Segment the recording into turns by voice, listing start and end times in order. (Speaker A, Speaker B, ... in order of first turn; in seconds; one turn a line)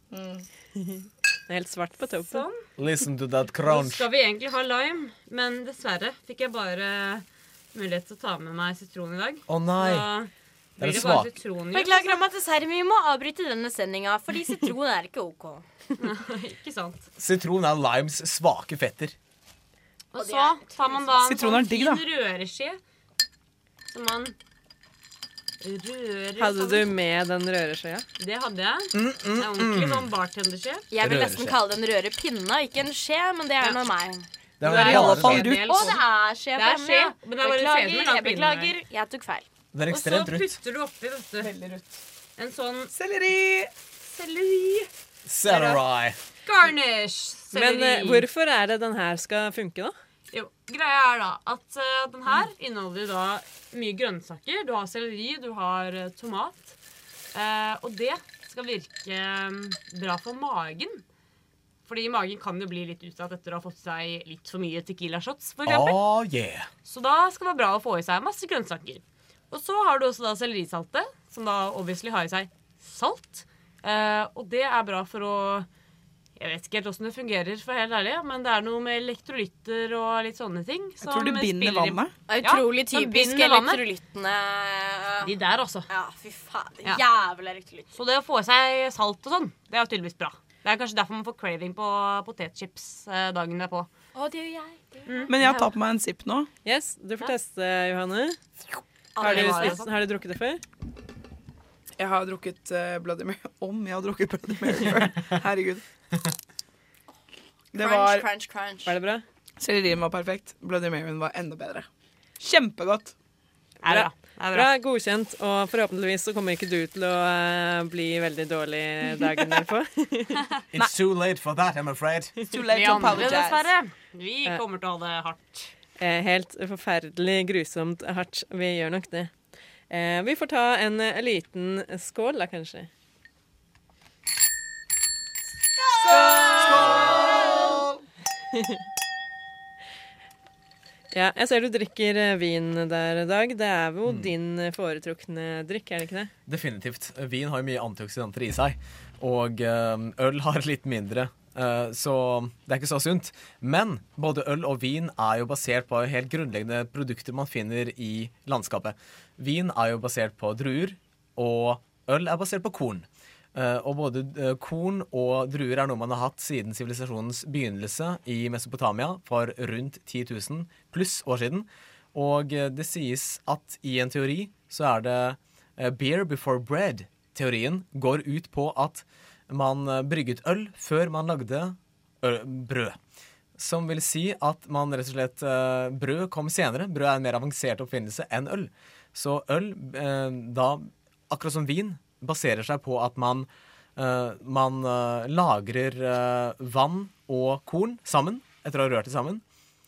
Speaker A: 0.1-0.4
Speaker B: 0.8-2.5
Speaker C: 2.1-2.6
Speaker D: 2.8-4.1
Speaker C: 3.6-12.2
Speaker D: 9.5-10.1
Speaker D: 10.8-11.3
Speaker E: 11.7-15.9
Speaker C: 16.0-17.1
Speaker D: 17.2-19.1
Speaker C: 20.1-22.8
Speaker E: 20.2-21.2
Speaker A: 21.2-22.0
Speaker C: 23.9-24.3
Speaker C: 25.6-26.9
Speaker B: 26.4-28.1
Speaker C: 28.2-30.9
Speaker D: 28.9-30.1
Speaker E: 30.9-34.3
Speaker D: 31.0-31.6
Speaker D: 34.6-35.5
Speaker C: 34.6-38.7
Speaker A: 34.7-35.9
Speaker E: 35.7-39.5
Speaker D: 39.7-40.6
Speaker C: 39.9-41.5
Speaker A: 41.4-42.0
Speaker C: 42.4-42.9
Speaker A: 42.9-43.7
Speaker C: 44.0-44.9
Speaker D: 45.2-46.2
Speaker C: 45.5-45.8
Speaker C: 46.4-48.2
Speaker B: 47.5-49.9
Speaker C: 50.3-56.8
Speaker C: 57.3-61.0
Speaker C: 61.8-66.0
Speaker D: 65.6-66.7
Speaker C: 66.8-75.7
Speaker C: 76.4-83.8
Speaker A: 81.0-82.1
Speaker E: 82.3-85.3
Speaker C: 85.2-85.9
Speaker E: 85.9-87.9
Speaker C: 87.9-93.9
Speaker E: 94.1-95.7
Speaker C: 95.0-95.3
Speaker A: 95.3-96.5
Speaker B: 96.6-98.4
Speaker E: 99.2-99.8
Speaker C: 99.2-99.9
Speaker B: 99.2-100.6
Speaker A: 102.0-105.8
Speaker A: 107.7-108.2
Speaker E: 107.7-109.0
Speaker B: 108.8-109.2
Speaker A: 109.6-111.9
Speaker A: 112.4-113.1
Speaker C: 113.8-114.7
Speaker B: 113.9-120.4
Speaker D: 120.7-122.4
Speaker A: 122.4-123.7
Speaker C: 122.7-125.7
Speaker B: 126.0-129.3
Speaker B: 129.9-132.9
Speaker A: 135.9-137.9
Speaker C: 136.2-137.3
Speaker E: 136.2-136.9
Speaker B: 141.1-146.3
Speaker D: 144.1-144.3
Speaker D: 146.5-183.0
Speaker D: 183.6-199.4